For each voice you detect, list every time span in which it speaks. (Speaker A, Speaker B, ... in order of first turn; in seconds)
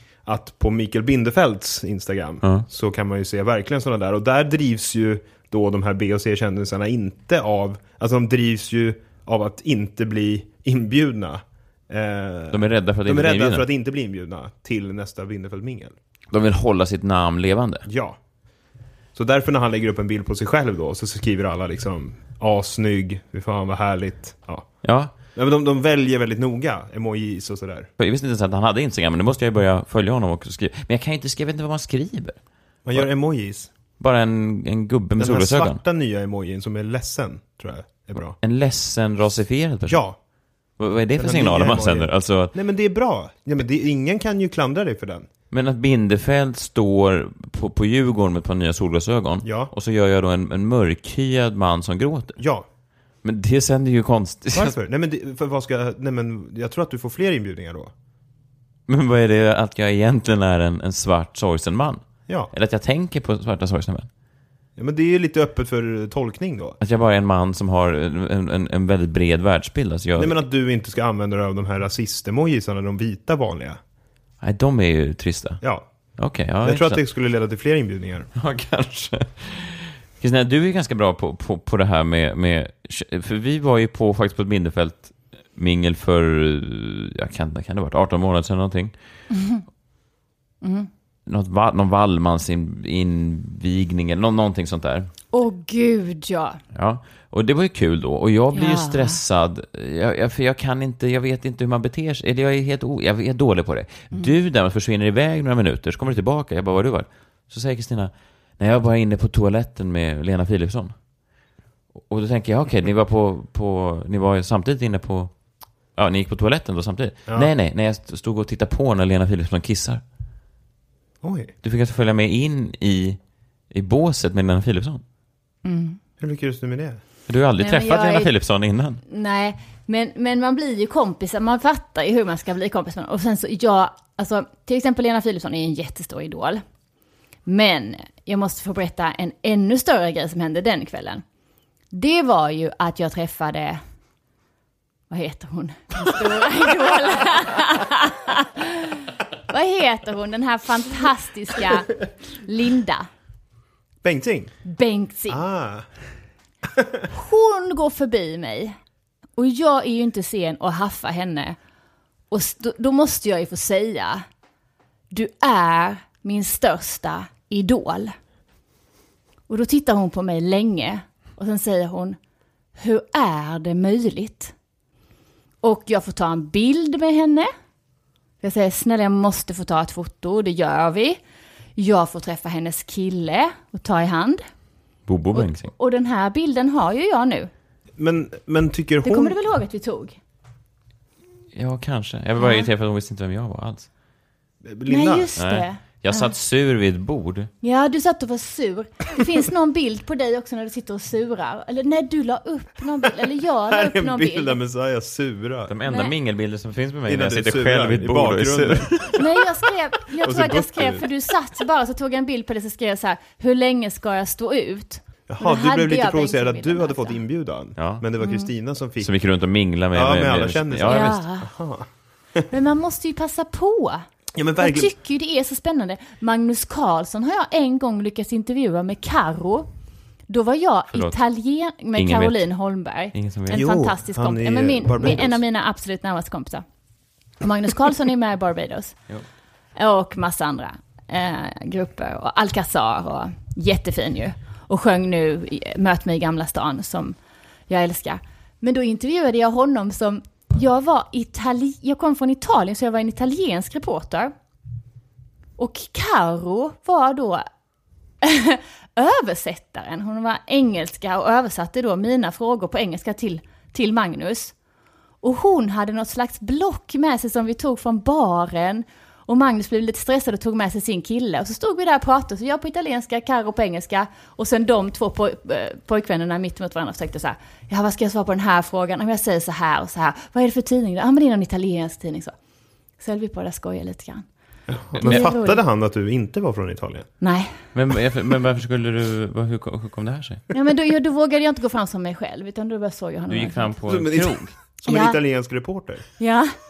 Speaker A: 0.2-15.9, 17.9-18.2, 19.1-24.8, 25.3-27.9, 32.9-33.7, 35.2-38.4, 39.9-40.2, 41.2-45.3, 49.4-49.7, 52.4-52.6, 54.5-57.9, 64.8-66.8, 70.2-73.8, 76.6-78.3, 121.2-121.5, 126.2-127.0, 154.0-154.6, 155.3-155.9, 188.0-189.3, 194.6-195.3, 203.7-205.7, 207.1-209.2, 210.2-211.1, 215.3-219.1, 219.9-221.9, 224.4-224.9, 233.5-235.4, 284.7-287.1, 293.9-296.1
Speaker B: 12.5-13.7, 16.3-17.9, 24.8-25.1, 28.0-32.4, 34.0-35.8, 38.4-40.0, 40.8-42.5, 45.5-52.4, 53.2-54.8, 58.9-64.1, 66.8-70.4, 74.4-75.6, 76.2-77.0, 78.4-88.9, 91.3-95.1, 96.7-111.0, 112.1-115.3, 116.0-120.0, 121.6-123.2, 123.7-125.0, 127.3-129.0, 185.1-185.7, 191.6-193.9, 195.4-197.5, 205.7-209.2, 217.8-218.0, 219.0-221.2, 231.9-232.4, 233.1-233.7, 287.7-290.4, 293.3-294.5
Speaker C: 89.3-89.7, 90.6-90.9, 95.3-96.6, 98.5-99.2, 125.7-126.0, 127.6-128.3, 129.1-136.6, 137.5-141.2, 141.9-143.8, 145.1-153.1, 154.7-155.4, 157.1-158.8, 159.4-161.6, 162.3-164.2, 165.1-168.2, 169.5-172.2, 172.8-174.5, 175.6-177.5, 178.4-181.2, 181.8-184.5, 185.3-187.5, 189.0-190.2, 192.4-192.7, 194.9-196.3, 197.6-204.6, 205.9-206.1, 209.2-217.2, 218.2-218.5, 220.9-221.5, 222.5-224.1, 224.6-229.7, 230.3-236.7, 237.4-238.9, 239.8-247.2, 247.7-254.3, 255.6-257.5, 258.2-264.6, 265.2-282.3, 283.0-284.2, 284.9-285.6, 287.2-287.5, 290.5-293.7, 294.9-295.2, 296.2-296.5